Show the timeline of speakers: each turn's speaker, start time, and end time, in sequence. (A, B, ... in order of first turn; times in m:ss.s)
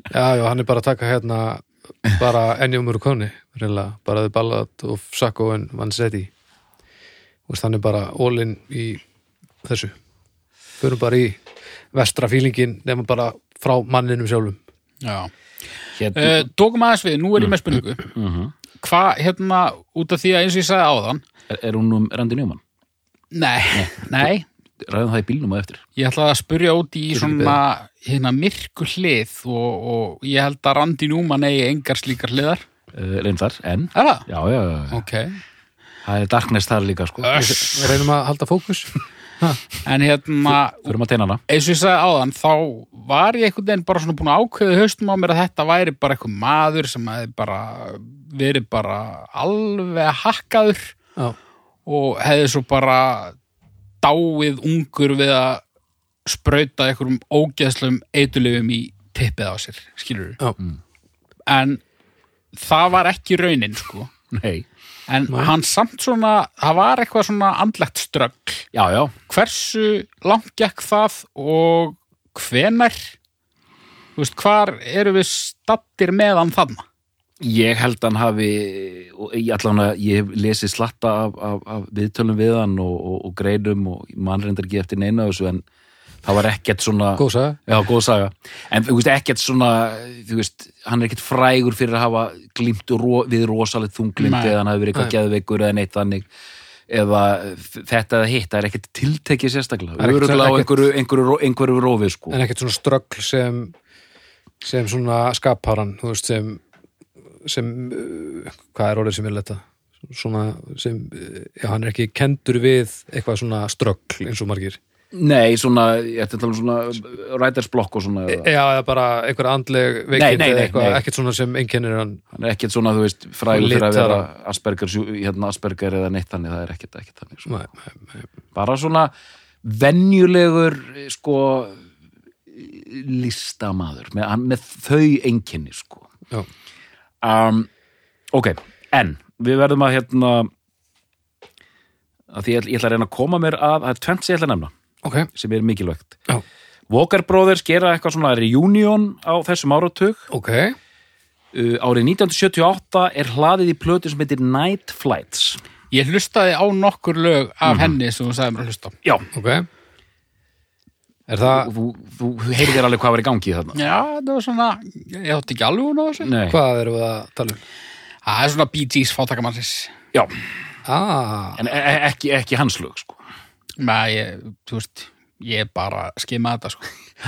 0:00.1-0:06.3 A
0:07.5-0:09.0 A
0:09.6-0:09.9 A
0:10.8-0:11.4 A
0:11.9-0:14.6 A
0:15.0-0:15.3 B
0:15.9-0:16.5 C
0:16.1-0:18.1 B
0:18.1-0:18.5 C
0:18.8-0:21.2 B
0:21.5-0:22.6 C
0:23.3-0:24.4 B
0:23.7-0:24.3 C
0:24.8-0:25.8 C
0:26.0-0:32.6 B
0:27.1-0:27.6 A
0:32.9-0:35.0 C
0:33.9-0:34.2 B
0:34.9-0:35.4 B
0:36.0-0:37.4 C
0:37.2-0:38.0 B
0:37.3-0:39.6 A
0:39.8-0:40.9 B
0:40.8-0:41.4 C
0:41.5-0:50.9 B
0:51.8-0:53.4 B
0:54.0-0:55.6 B
0:56.2-1:00.4 B
1:01.5-1:01.8 B
1:02.5-1:04.1 B
1:04.3-1:04.6 C
1:05.1-1:08.7 B
1:08.7-1:09.1 C
1:09.3-1:13.1 B
1:14.2-1:16.8 B
1:17.4-1:25.6 C
1:26.2-1:36.2 C
1:27.2-1:27.7 A
1:34.2-1:34.6 B
1:36.9-1:42.4 C
1:40.0-1:40.8 A
1:42.3-1:43.7 A
1:44.6-1:46.6 A
1:47.4-1:54.8 A
1:55.1-1:58.5 C
1:58.3-2:02.2 A
2:00.1-2:01.0 C
2:02.3-2:07.5 C
2:03.5-2:04.3 A
2:07.4-2:08.2 A
2:08.5-2:09.1 C
2:09.6-2:11.8 C
2:12.5-2:16.1 C
2:17.2-2:17.7 C
2:18.3-2:20.5 C
2:22.3-2:24.7 C
2:25.0-2:25.3 A
2:25.3-2:26.2 C
2:26.9-2:30.3 C
2:30.3-2:30.8 A
2:31.5-2:35.6 C
2:35.9-2:38.9 B
2:37.6-2:38.0 C
2:39.3-2:39.7 A
2:41.3-2:41.7 A
2:41.4-2:43.8 C
2:43.7-2:46.3 B
2:46.2-2:46.6 C
2:46.5-2:47.6 A
2:48.2-2:49.9 B
2:50.8-2:51.6 A
2:51.6-2:53.2 C
2:53.8-2:56.9 B